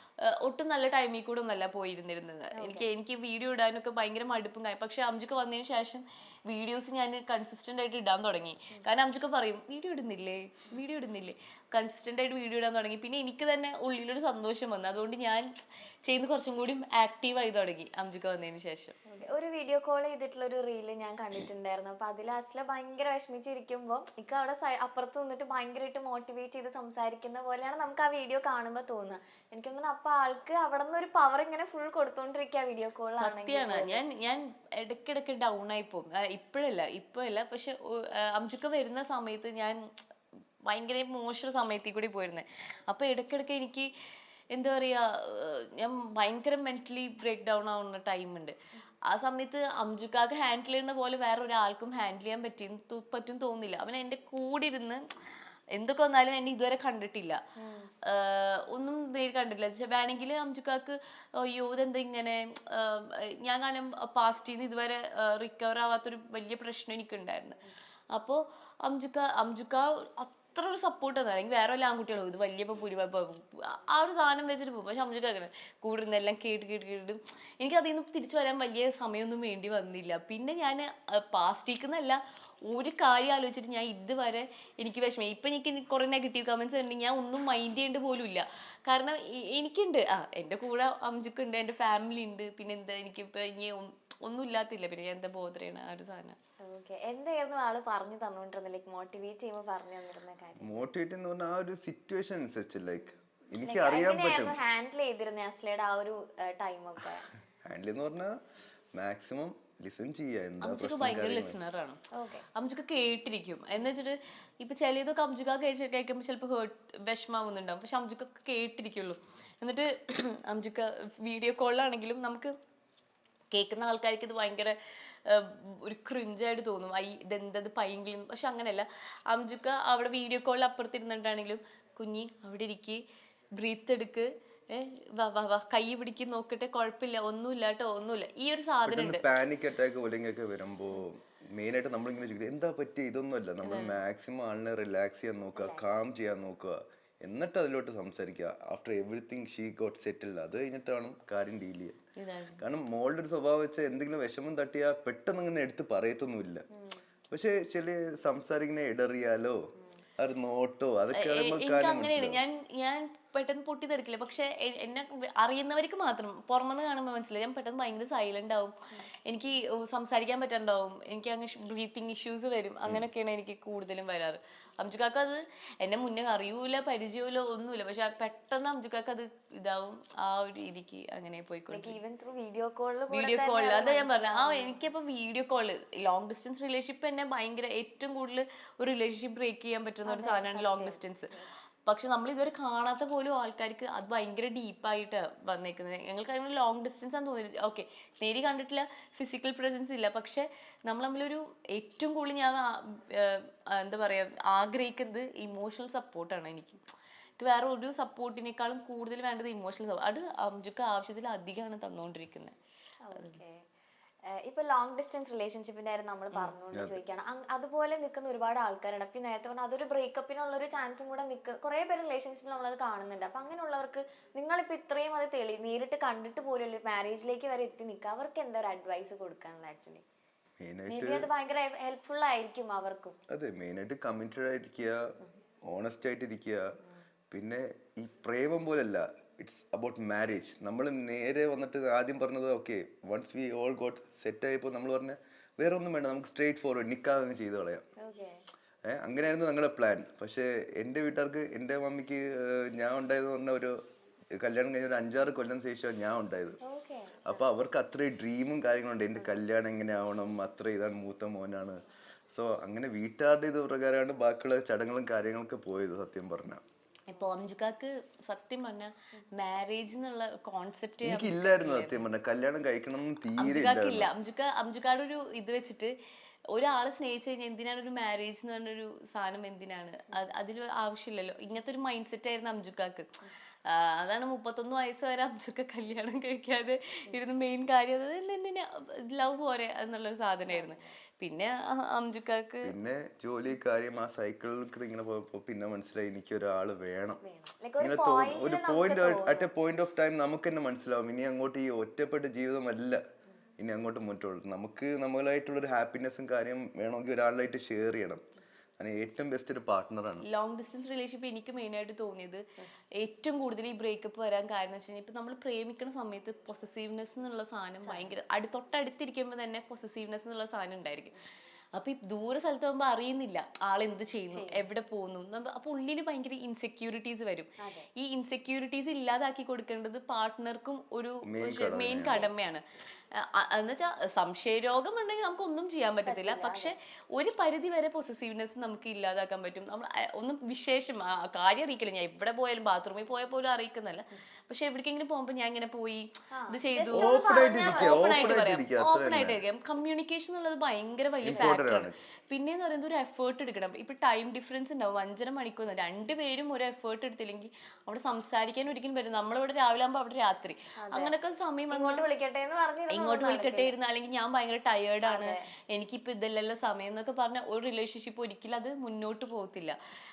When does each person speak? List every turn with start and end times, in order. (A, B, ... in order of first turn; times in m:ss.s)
0:00.3-0:15.5 A
0:02.6-0:02.9 B
0:16.0-0:19.0 A
0:19.1-0:34.0 B
0:33.2-0:39.8 A
0:40.7-0:43.9 A
0:44.5-0:48.5 A
0:49.1-0:55.0 A
0:55.8-0:57.4 A
0:57.6-0:57.9 B
0:58.1-1:07.6 A
1:08.1-1:36.4 A
1:36.6-1:40.8 B
1:40.6-1:44.6 C
1:43.6-1:47.3 B
1:47.7-1:48.4 C
1:49.0-1:51.6 C
1:50.6-1:52.0 A
1:52.2-1:52.5 B
1:52.6-2:02.5 A
2:03.5-2:13.0 A
2:13.6-2:19.2 A
2:18.8-2:32.0 C
2:23.6-2:24.0 A
2:25.6-2:25.9 B
2:32.2-2:32.6 A
2:32.6-2:36.7 C
2:36.7-2:37.0 B
2:37.3-2:39.6 C
2:40.2-2:42.4 C
2:41.2-2:48.8 A
2:49.3-3:02.0 A
3:01.7-3:04.8 B
3:03.1-3:11.3 A
3:10.1-3:11.5 B
3:11.9-3:26.8 A
3:27.4-3:32.5 A
3:33.0-3:33.6 B
3:34.4-3:50.0 B
3:36.7-3:37.0 C
3:50.6-3:51.3 C
3:50.9-3:53.2 B
3:53.3-3:55.1 C
3:55.7-3:56.7 C
3:57.3-4:07.8 C
4:08.0-4:08.3 B
4:08.8-4:13.8 C
4:14.4-4:16.6 C
4:16.7-4:17.4 B
4:17.2-4:21.8 C
4:22.3-4:26.6 C
4:27.1-4:32.1 A
4:31.0-4:34.1 C
4:33.4-4:35.9 A
4:36.5-4:43.1 A
4:43.7-4:52.7 A
4:50.5-4:50.9 B
4:52.6-4:57.2 C
4:57.2-4:59.5 B
4:57.8-5:03.0 C
5:03.6-5:08.2 C
5:08.8-5:10.2 C
5:10.2-5:12.4 A
5:13.0-5:21.1 A
5:17.8-5:18.1 B
5:21.8-5:32.7 A
5:24.3-5:24.6 B
5:31.3-5:32.2 C
5:32.0-5:32.6 B
5:33.2-6:02.0 A
5:36.1-5:36.7 B
5:46.4-5:48.5 B
5:46.9-5:49.4 C
5:51.2-5:51.9 C
6:00.8-6:01.2 B
6:01.7-6:03.8 B
6:02.9-6:09.8 A
6:05.1-6:05.4 B